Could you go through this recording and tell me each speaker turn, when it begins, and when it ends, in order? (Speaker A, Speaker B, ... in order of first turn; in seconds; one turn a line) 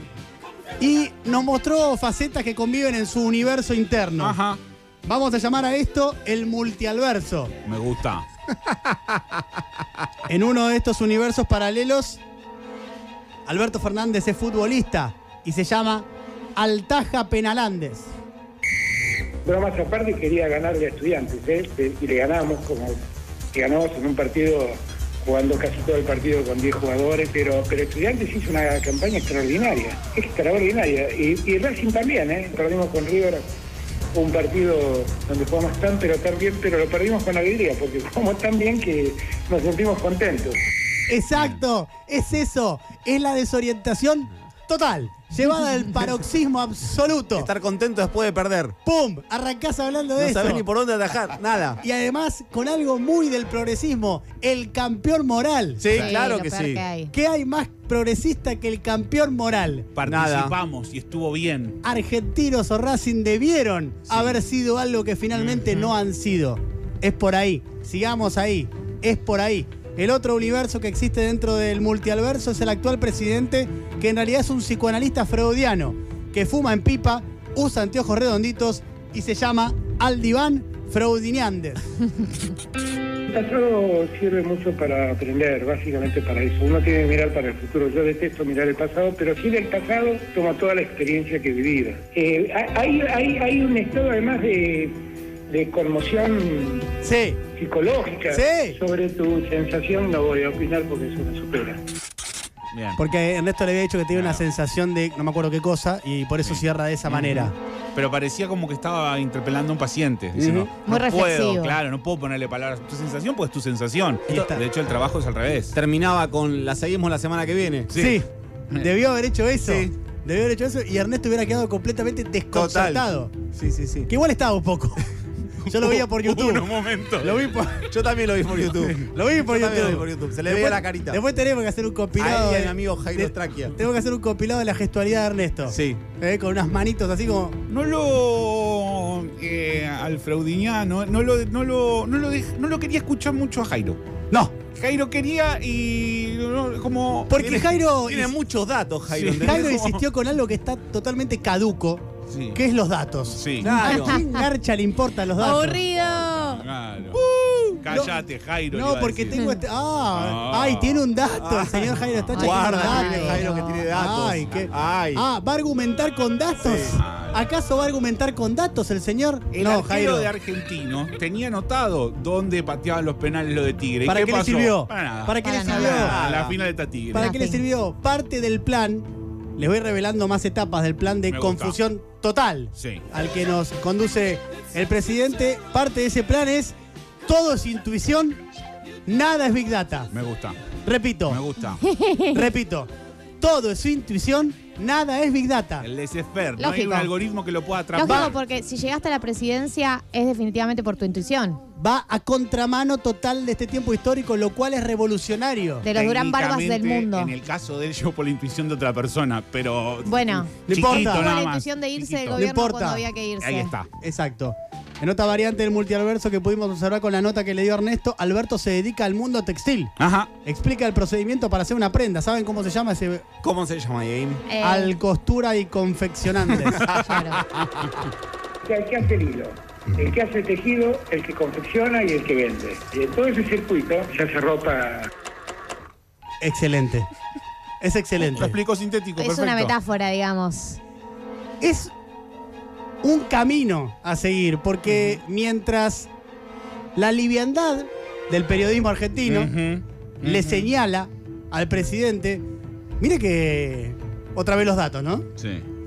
Speaker A: 0.8-4.4
Speaker B: 4.2-4.6
Speaker A: 5.0-7.5
Speaker B: 7.6-8.2
Speaker A: 10.2-12.2
Speaker A: 13.4-18.1
Speaker C: 19.4-23.0
Speaker C: 23.5-33.5
Speaker C: 34.1-40.6
Speaker A: 41.1-47.5
Speaker D: 47.4-48.8
Speaker A: 48.8-50.6
Speaker D: 50.2-51.8
Speaker A: 51.8-55.9
Speaker D: 55.8-56.8
Speaker E: 56.0-57.1
Speaker A: 57.1-59.9
Speaker B: 60.0-61.8
Speaker D: 60.0-60.5
Speaker A: 61.8-81.8
Speaker B: 65.3-65.6
Speaker C: 83.3-96.9
Speaker A: 97.0-97.4
Speaker C: 97.5-101.8
Speaker A: 98.3-98.8
Speaker B: 102.7-103.0
Speaker A: 103.0-107.5
Speaker B: 104.1-104.5
Speaker B: 106.4-115.7
Speaker A: 110.3-110.7
Speaker E: 110.8-111.8
Speaker A: 114.3-114.6
Speaker D: 115.7-117.9
Speaker B: 117.9-118.2
Speaker A: 117.9-123.3
Speaker D: 119.6-119.9
Speaker D: 122.5-124.1
Speaker A: 124.1-125.0
Speaker B: 125.6-127.5
Speaker A: 125.7-127.9
Speaker D: 127.9-131.2
Speaker A: 129.0-137.6
Speaker D: 132.2-133.7
Speaker D: 135.7-136.0
Speaker B: 137.7-144.0
Speaker B: 144.7-147.4
Speaker A: 147.3-148.3
Speaker D: 147.4-149.9
Speaker B: 149.1-150.0
Speaker A: 149.4-155.8
Speaker B: 152.3-152.6
Speaker B: 153.3-153.7
Speaker D: 153.6-154.2
Speaker E: 153.9-154.4
Speaker E: 155.4-156.7
Speaker B: 155.8-157.2
Speaker A: 157.5-158.2
Speaker B: 157.8-159.4
Speaker A: 158.7-170.3
Speaker E: 159.3-159.6
Speaker B: 160.1-161.0
Speaker D: 161.4-165.2
Speaker E: 162.3-163.6
Speaker D: 166.6-166.9
Speaker B: 166.9-167.4
Speaker B: 169.5-177.3
Speaker A: 174.0-176.2
Speaker E: 175.4-176.1
Speaker D: 175.8-176.6
Speaker A: 177.1-179.1
Speaker E: 177.1-177.6
Speaker A: 179.6-186.7
Speaker B: 181.3-181.8
Speaker B: 182.8-183.0
Speaker A: 187.2-188.4
Speaker A: 189.1-190.1
Speaker B: 190.1-190.6
Speaker A: 190.8-191.4
Speaker B: 191.3-191.8
Speaker E: 191.8-192.5
Speaker A: 192.3-195.9
Speaker B: 195.8-198.4
Speaker E: 196.6-197.1
Speaker E: 197.9-201.6
Speaker A: 198.0-198.3
Speaker A: 201.8-205.9
Speaker E: 205.8-207.3
Speaker B: 205.9-212.4
Speaker E: 210.0-213.8
Speaker A: 210.7-211.4
Speaker A: 212.3-213.1
Speaker B: 213.4-213.9
Speaker A: 214.0-223.2
Speaker B: 220.0-220.3
Speaker D: 223.4-224.4
Speaker E: 224.5-224.9
Speaker A: 224.6-226.8
Speaker D: 226.8-227.2
Speaker E: 227.0-227.4
Speaker C: 228.6-235.1
Speaker A: 236.4-237.1
Speaker A: 237.8-238.6
Speaker B: 238.2-239.8
Speaker E: 239.2-240.8
Speaker A: 241.6-241.9
Speaker A: 243.0-246.1
Speaker A: 246.9-249.5
Speaker B: 249.3-250.7
Speaker A: 250.2-252.4
Speaker A: 253.0-255.2
Speaker B: 255.4-255.7